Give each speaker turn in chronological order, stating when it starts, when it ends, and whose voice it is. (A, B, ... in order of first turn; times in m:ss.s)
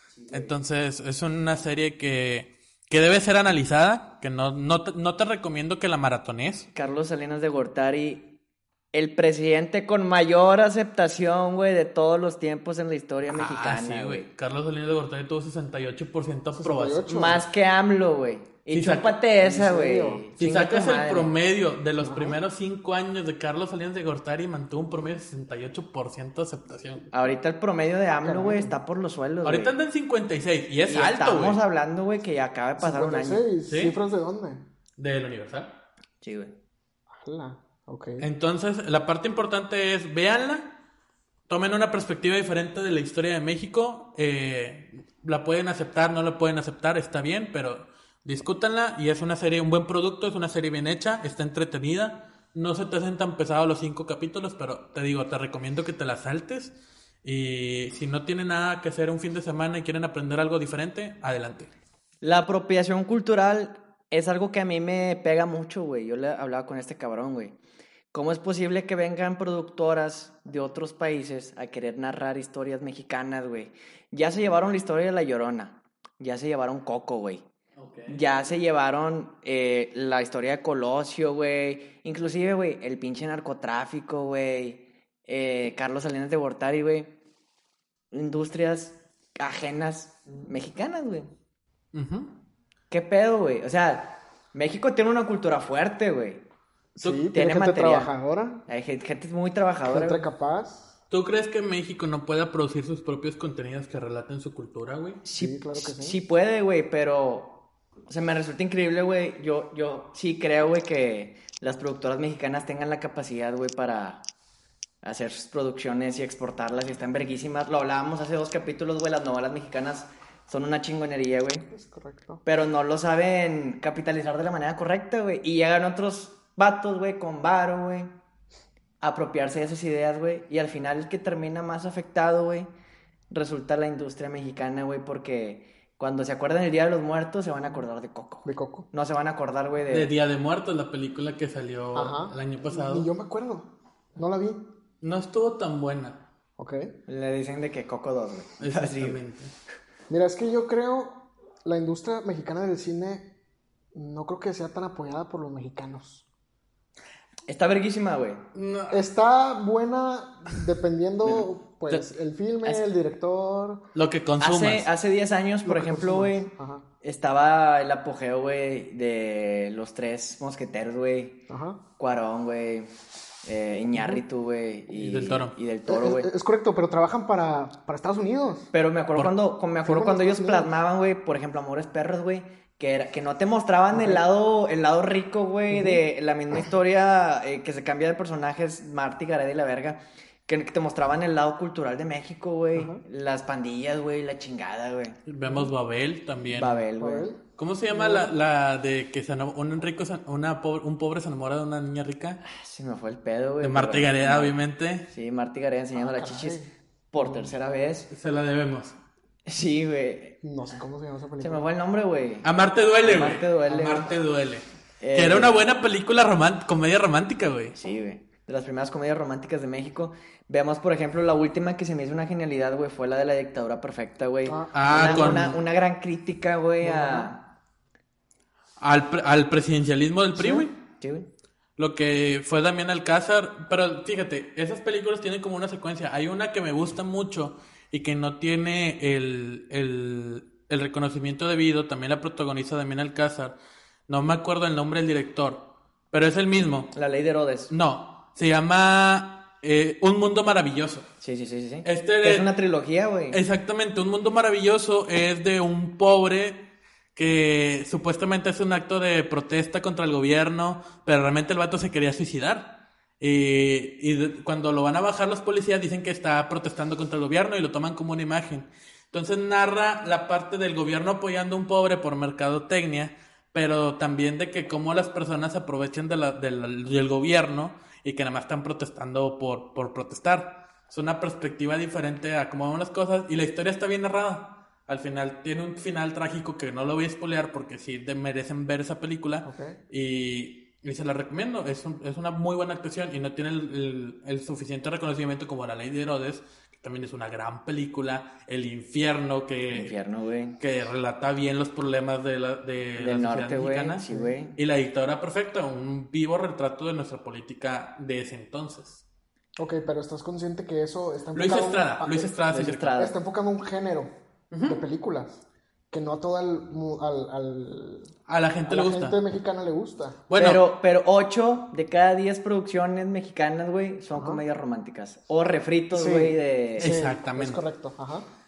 0:00.2-0:00.6 A
0:00.3-0:06.7 B
0:06.7-0:08.4 A
0:08.9-0:14.3 A
0:13.3-0:17.3 B
0:16.6-0:17.4 C
0:17.1-0:21.3 A
0:18.7-0:19.1 B
0:19.4-0:20.3 C
0:20.4-0:27.1 B
0:22.0-0:22.4 C
0:27.1-0:29.7 A
0:28.2-0:28.8 C
0:29.4-0:31.6 B
0:30.9-0:33.5 A
0:32.8-0:34.7 C
0:33.7-0:34.0 B
0:35.0-0:35.7 B
0:36.2-0:36.6 A
0:37.1-0:38.3 C
0:38.2-0:40.7 B
0:41.5-0:56.7 B
0:57.2-1:01.7 B
1:02.2-1:07.6 A
1:08.1-1:17.4 A
1:17.8-1:18.2 B
1:18.1-1:27.1 A
1:28.1-1:31.3 A
1:31.9-1:32.3 B
1:32.9-1:36.4 A
1:37.0-1:38.6 C
1:37.3-1:38.1 A
1:38.7-1:40.2 A
1:39.9-1:41.0 C
1:41.1-1:45.2 B
1:45.2-1:54.2 A
1:45.4-1:46.2 C
1:55.0-2:01.6 A
2:01.7-2:02.4 C
2:02.4-2:08.1 A
2:09.0-2:12.7 A
2:13.3-2:20.1 A
2:18.4-2:18.9 C
2:19.9-2:23.1 B
2:21.9-2:24.7 C
2:25.0-2:26.2 B
2:26.6-2:26.9 C
2:27.1-2:29.2 A
2:28.6-2:29.5 B
2:30.1-2:33.3 C
2:33.9-2:36.2 C
2:37.5-2:38.4 A
2:38.5-2:39.0 B
2:38.9-2:43.8 C
2:43.9-2:44.9 B
2:44.4-2:46.5 A
2:45.6-2:46.9 C
2:47.0-2:51.4 A
2:51.5-2:51.8 C
2:52.0-2:52.9 A
2:53.4-2:56.3 A
2:53.9-2:54.2 C
2:54.9-2:55.5 B
2:55.9-2:58.7 C
2:58.7-3:15.2 A
2:59.8-3:00.7 C
3:03.9-3:04.2 C
3:05.7-3:06.0 C
3:12.7-3:13.0 C
3:15.3-3:16.8 B
3:16.5-3:17.3 A
3:17.0-3:18.3 C
3:17.6-3:22.4 B
3:22.4-3:24.6 A
3:23.6-3:25.1 B
3:25.1-3:26.6 A
3:26.0-3:27.5 C
3:27.1-3:28.1 A
3:28.1-3:29.0 B
3:29.5-3:30.4 A
3:30.4-3:31.6 C
3:31.4-3:32.5 A
3:32.4-3:37.7 B
3:33.0-3:34.1 A
3:35.0-3:35.5 A
3:37.7-3:47.4 A
3:44.4-3:45.6 C
3:44.7-3:45.6 B
3:46.8-3:47.3 C
3:48.8-3:50.7 B
3:50.4-3:50.6 C
3:50.8-3:51.3 A
3:51.8-4:03.6 B
4:04.1-4:06.9 B
4:06.9-4:07.7 A
4:07.7-4:11.1 B
4:11.2-4:13.4 A
4:11.8-4:12.5 B
4:13.3-4:16.6 B
4:17.2-4:59.9 B
4:49.4-4:49.8 C
4:59.7-5:00.6 A
5:00.6-5:09.0 B
5:03.0-5:04.6 A
5:09.6-5:12.4 C
5:11.4-5:12.9 B
5:12.5-5:13.2 A
5:13.0-5:14.1 C
5:14.5-5:14.8 B
5:14.6-5:18.1 C
5:18.3-5:19.2 B
5:18.6-5:20.2 C
5:20.3-5:20.6 B
5:20.4-5:26.9 A
5:24.1-5:24.4 C
5:25.9-5:28.2 C
5:26.8-5:27.6 B